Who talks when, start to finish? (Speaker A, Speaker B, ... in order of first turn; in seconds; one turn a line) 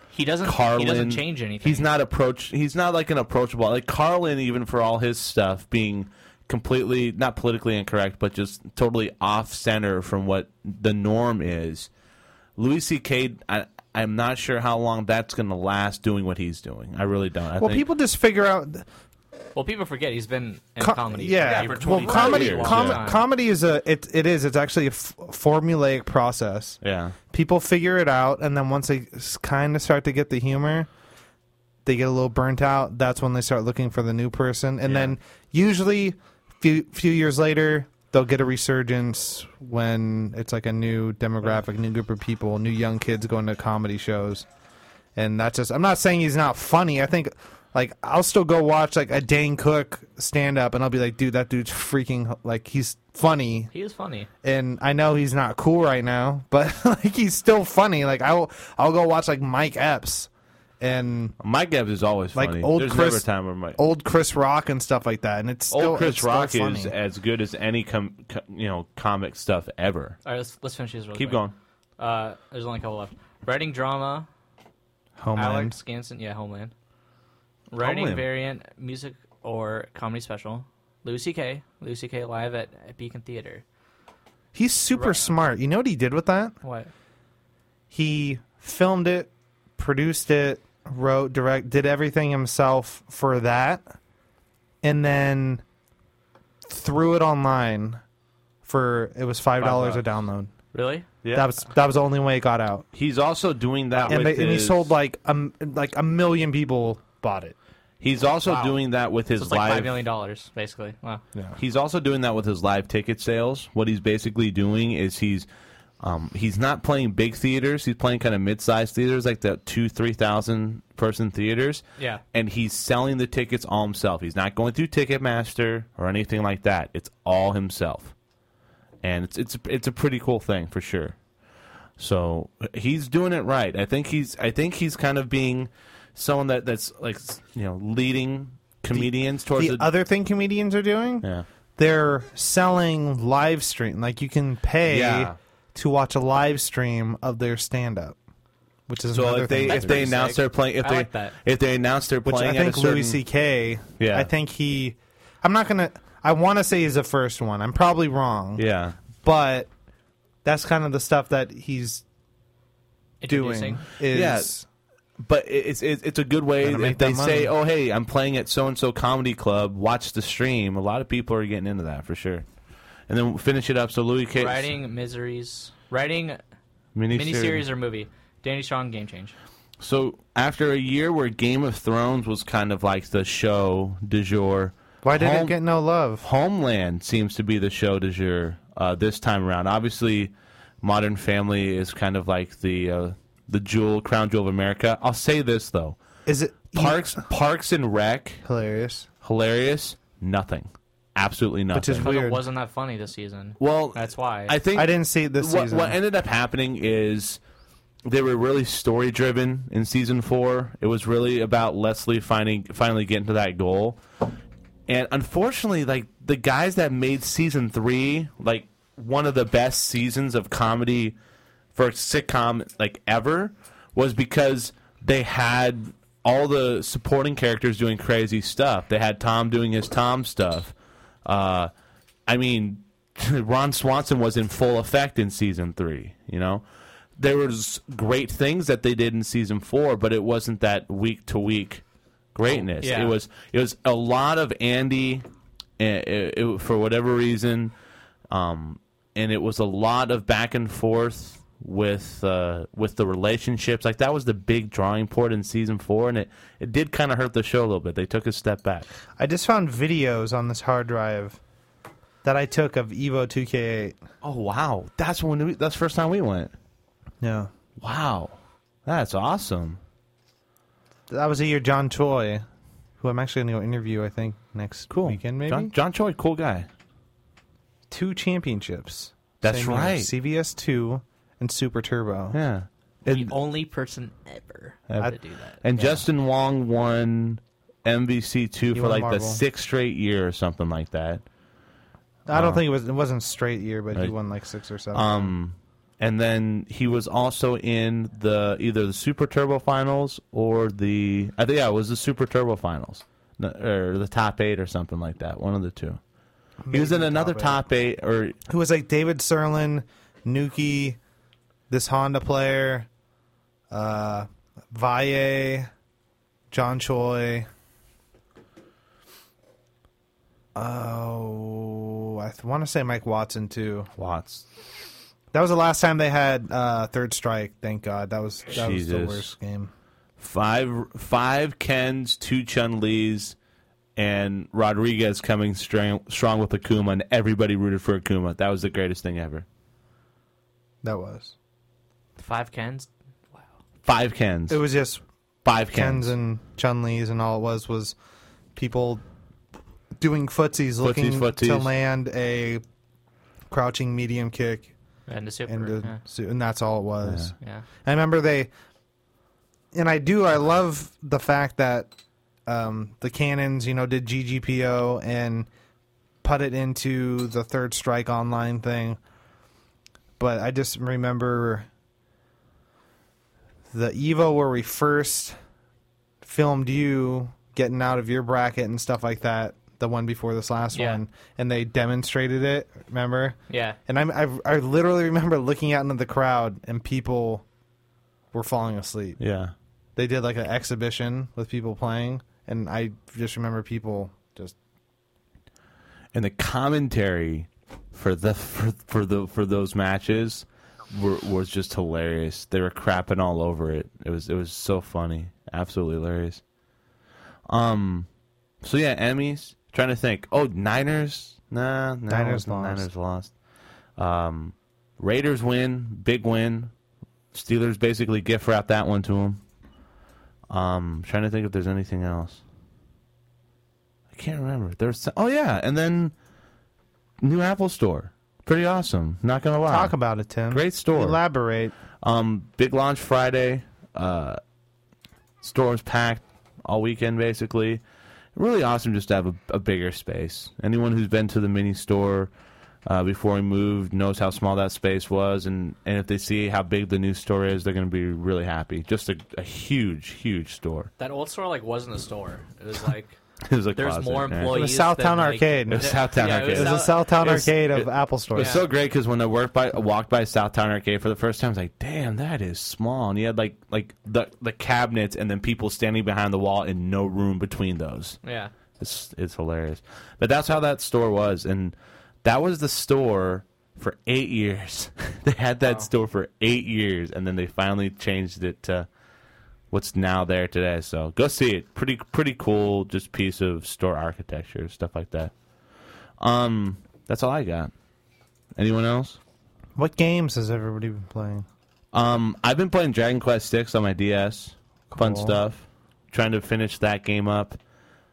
Speaker A: 0.1-1.9
Speaker B: 0.4-11.9
Speaker B: 12.6-17.8
Speaker C: 17.6-18.9
Speaker A: 19.5-23.2
Speaker C: 20.8-30.9
Speaker B: 21.4-23.0
Speaker B: 26.8-27.1
Speaker C: 31.8-44.5
Speaker B: 34.8-35.1
Speaker C: 45.1-53.7
Speaker A: 53.7-54.3
Speaker C: 54.4-61.4
Speaker B: 61.4-63.8
Speaker C: 62.3-66.9
Speaker B: 65.7-70.2
Speaker A: 70.2-71.4
Speaker B: 71.1-71.5
Speaker A: 72.0-74.3
Speaker C: 75.2-75.8
Speaker A: 75.3-76.7
Speaker A: 77.7-83.6
Speaker B: 77.8-78.3
Speaker C: 84.5-86.5
Speaker A: 84.9-85.3
Speaker A: 86.6-86.9
Speaker C: 87.9-93.9
Speaker C: 94.8-95.6
Speaker C: 96.7-98.0
Speaker C: 98.6-100.5
Speaker A: 99.6-100.1
Speaker A: 100.7-101.1
Speaker B: 101.2-101.5
Speaker C: 101.3-102.8
Speaker B: 102.9-104.9
Speaker C: 104.0-107.5
Speaker B: 108.0-110.0
Speaker A: 108.4-108.8
Speaker A: 109.3-111.2
Speaker B: 111.6-115.5
Speaker B: 116.0-128.1
Speaker A: 122.0-122.2
Speaker B: 129.0-131.2
Speaker B: 132.0-139.9
Speaker C: 138.9-148.2
Speaker B: 144.8-145.3
Speaker C: 148.9-150.2
Speaker B: 149.1-153.2
Speaker A: 149.6-151.3
Speaker C: 152.2-159.7
Speaker B: 154.0-154.3
Speaker B: 158.6-159.0
Speaker C: 160.4-162.0
Speaker A: 163.2-163.9
Speaker C: 163.2-164.7
Speaker B: 164.1-164.5
Speaker B: 165.2-172.4
Speaker C: 166.6-167.5
Speaker B: 173.1-174.7
Speaker A: 174.4-176.4
Speaker B: 176.9-177.6
Speaker A: 177.1-179.3
Speaker B: 179.8-185.6
Speaker C: 185.0-186.2
Speaker B: 186.2-196.0
Speaker C: 196.2-197.2
Speaker B: 196.7-198.4
Speaker C: 198.4-199.1
Speaker B: 199.2-202.1
Speaker C: 201.7-202.4
Speaker A: 201.9-204.6
Speaker B: 203.6-207.4
Speaker C: 204.7-206.0
Speaker B: 208.1-214.0
Speaker B: 214.9-221.2
Speaker B: 221.7-230.7
Speaker B: 231.2-231.7
Speaker B: 232.3-236.7
Speaker B: 237.2-241.8
Speaker B: 242.3-245.2
Speaker A: 242.5-243.2
Speaker B: 245.8-247.7
Speaker B: 248.3-258.9
Speaker C: 259.2-261.4
Speaker C: 262.2-264.0
Speaker B: 264.2-266.5
Speaker C: 267.2-267.5
Speaker B: 267.8-269.8
Speaker C: 271.1-272.4
Speaker C: 273.0-275.7
Speaker B: 274.9-276.7
Speaker C: 277.9-282.4
Speaker B: 279.4-280.1
Speaker B: 282.3-283.4
Speaker A: 283.1-286.0
Speaker B: 284.9-291.2
Speaker C: 288.7-289.4
Speaker C: 292.3-295.3
Speaker B: 292.3-292.6
Speaker B: 294.9-306.0
Speaker C: 306.6-307.6
Speaker B: 306.7-308.4
Speaker C: 308.5-311.0
Speaker C: 311.7-312.9
Speaker C: 313.7-315.7
Speaker C: 316.5-317.5
Speaker C: 320.5-323.9
Speaker B: 324.0-324.4
Speaker C: 325.3-329.7
Speaker B: 328.5-329.3
Speaker B: 330.2-333.4
Speaker B: 333.9-339.4
Speaker C: 340.8-341.3
Speaker A: 342.2-343.5
Speaker B: 343.8-344.6
Speaker C: 344.5-345.0
Speaker B: 345.4-346.1
Speaker C: 345.7-347.9
Speaker C: 348.5-349.0
Speaker C: 350.0-352.6
Speaker B: 350.8-351.7
Speaker C: 353.5-354.7
Speaker A: 355.1-356.0
Speaker C: 355.5-357.3
Speaker B: 357.0-357.3
Speaker A: 357.4-357.6
Speaker C: 357.8-358.5
Speaker C: 359.7-361.9
Speaker C: 362.4-365.5
Speaker C: 366.2-369.0
Speaker C: 370.2-371.7
Speaker C: 373.7-375.4
Speaker C: 376.2-387.4
Speaker A: 380.7-381.0
Speaker A: 383.5-383.8
Speaker C: 388.3-389.2
Speaker B: 389.2-389.5
Speaker C: 389.9-394.5
Speaker B: 396.1-406.4
Speaker B: 407.5-408.1
Speaker B: 408.6-413.3
Speaker C: 412.1-412.9
Speaker B: 414.0-416.7
Speaker B: 417.3-419.4
Speaker B: 420.5-422.4
Speaker B: 424.1-426.1
Speaker B: 427.2-429.9
Speaker C: 429.6-431.8
Speaker B: 430.5-431.2
Speaker B: 432.0-434.4
Speaker B: 435.4-437.8
Speaker B: 438.3-442.3
Speaker B: 442.9-450.9
Speaker A: 451.0-453.2
Speaker B: 453.4-454.6
Speaker A: 453.7-457.0
Speaker C: 454.5-458.6
Speaker B: 455.7-468.2
Speaker A: 458.3-458.6
Speaker A: 468.2-468.5
Speaker B: 468.8-478.9
Speaker B: 479.7-485.3
Speaker B: 486.2-487.7
Speaker B: 488.6-489.2
Speaker C: 489.8-491.4
Speaker B: 491.9-497.6
Speaker C: 494.9-495.4